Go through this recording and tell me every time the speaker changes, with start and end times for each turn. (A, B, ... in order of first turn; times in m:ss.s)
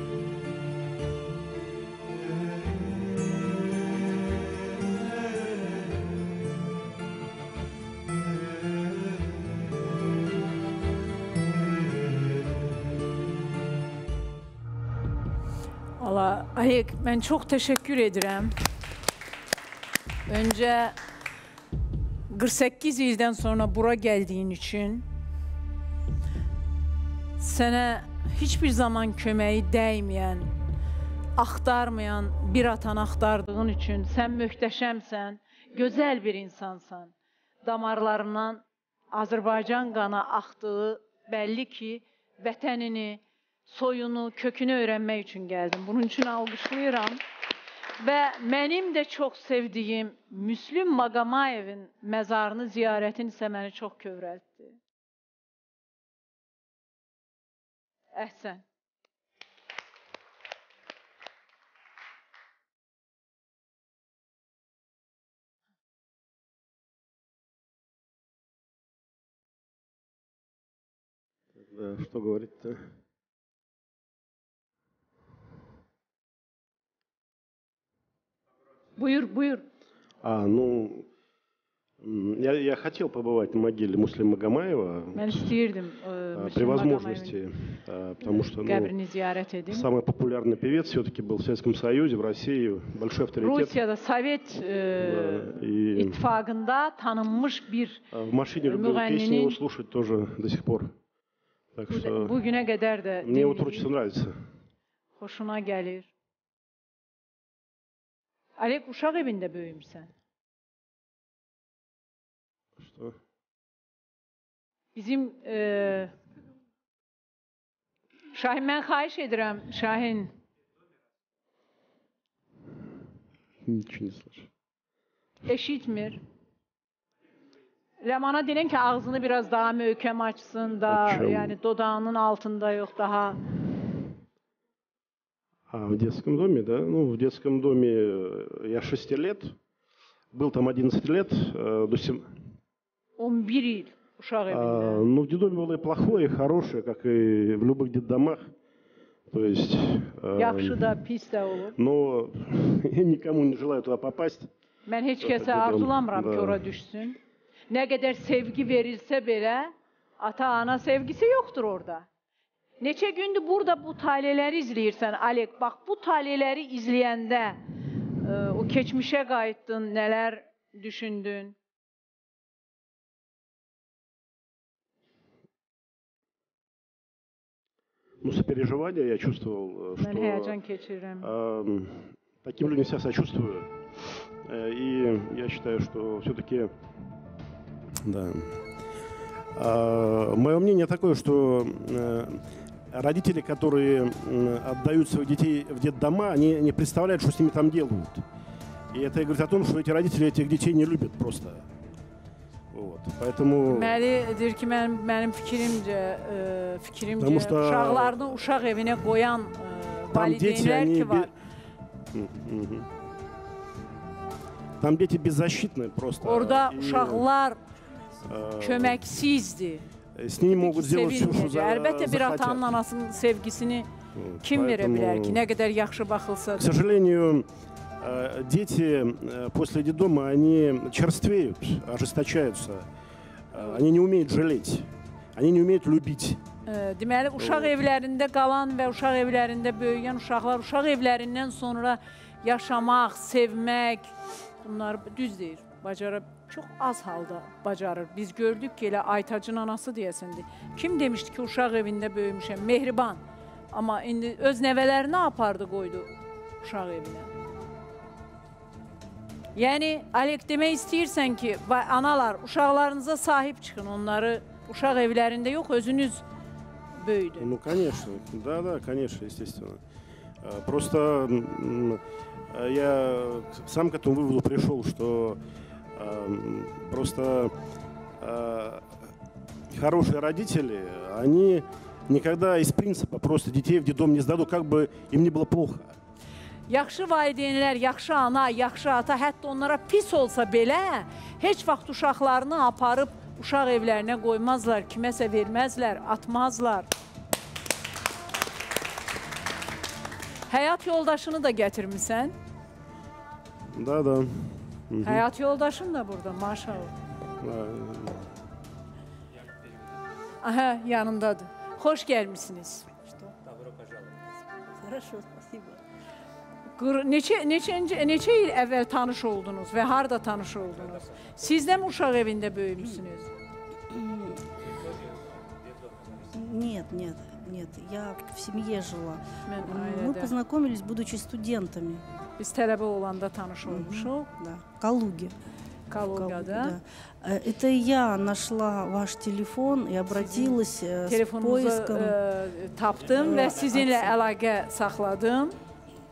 0:16.0-0:18.5 A
0:20.3-0:20.9 A
0:22.3-0:25.0 A
0:27.4-0:30.5 A
0:31.4-0:47.2 A
0:48.0-0:54.8 A
0:58.1-0:58.6 A
1:11.6-1:12.8 B
1:19.0-1:19.6 A
1:20.2-1:21.0 B
1:22.0-1:25.5 B
1:25.1-1:27.4 A
1:26.3-1:28.9 B
1:28.3-1:29.9 A
1:29.7-1:33.8 B
1:33.4-1:38.0 A
1:35.0-1:36.2 B
1:38.1-1:40.9 B
1:38.6-1:39.6 A
1:41.7-1:42.4 B
1:41.9-1:43.9 A
1:43.2-1:44.4 B
1:45.2-1:46.1 A
1:48.6-1:50.1 A
1:52.8-1:53.1 B
1:54.9-1:56.1 A
1:58.3-2:00.3 A
2:03.6-2:04.5 B
2:05.4-2:06.2 A
2:08.0-2:13.4 A
2:10.9-2:11.6 B
2:15.7-2:19.5 B
2:20.3-2:22.3 B
2:23.2-2:25.0 A
2:24.5-2:28.5 B
2:29.3-2:31.0 B
2:30.4-2:31.8 A
2:31.8-2:34.5 B
2:34.8-2:37.2 A
2:35.2-2:36.6 B
2:37.7-2:42.0 A
2:42.8-2:47.6 A
2:48.2-2:51.6 A
2:58.2-3:00.6 B
3:00.0-3:01.3 A
3:01.2-3:03.7 B
3:04.4-3:06.7 B
3:08.0-3:08.6 B
3:09.5-3:18.2 B
3:18.9-3:21.6 B
3:22.7-3:24.0 B
3:23.6-3:31.3 A
3:27.2-3:28.2 B
3:30.1-3:31.3 B
3:32.1-3:32.9 B
3:34.8-3:37.3 B
3:36.2-3:37.6 A
3:38.2-3:39.1 B
3:38.6-3:39.8 A
3:40.1-3:42.7 B
3:40.5-3:43.9 A
3:44.1-3:45.4 B
3:44.4-3:46.8 A
3:46.5-3:47.5 B
3:48.0-3:52.9 B
3:53.5-3:56.4 B
3:53.6-3:53.8 A
3:56.6-4:13.2 A
3:57.4-3:57.8 B
4:13.7-4:16.1 A
4:16.6-4:17.3 A
4:19.5-4:26.2 A
4:27.0-4:27.5 A
4:27.4-4:29.8 B
4:30.4-4:32.0 B
4:32.5-4:35.4 B
4:36.0-4:37.5 B
4:38.2-4:38.9 B
4:39.7-4:45.9 B
4:46.7-4:56.9 A
5:00.5-5:02.3 A
5:03.7-5:05.3 B
5:05.0-5:06.9 A
5:07.4-5:08.3 B
5:10.4-5:12.9 A
5:13.1-5:13.3 C
5:14.6-5:15.8 C
5:16.7-5:23.3 A
5:23.9-5:24.4 C
5:26.2-5:32.0 C
5:29.4-5:30.3 A
5:32.4-5:34.3 A
5:33.6-5:35.3 C
5:35.9-5:36.8 A
5:36.0-5:42.2 C
5:40.1-5:45.6 A
5:43.1-5:44.1 C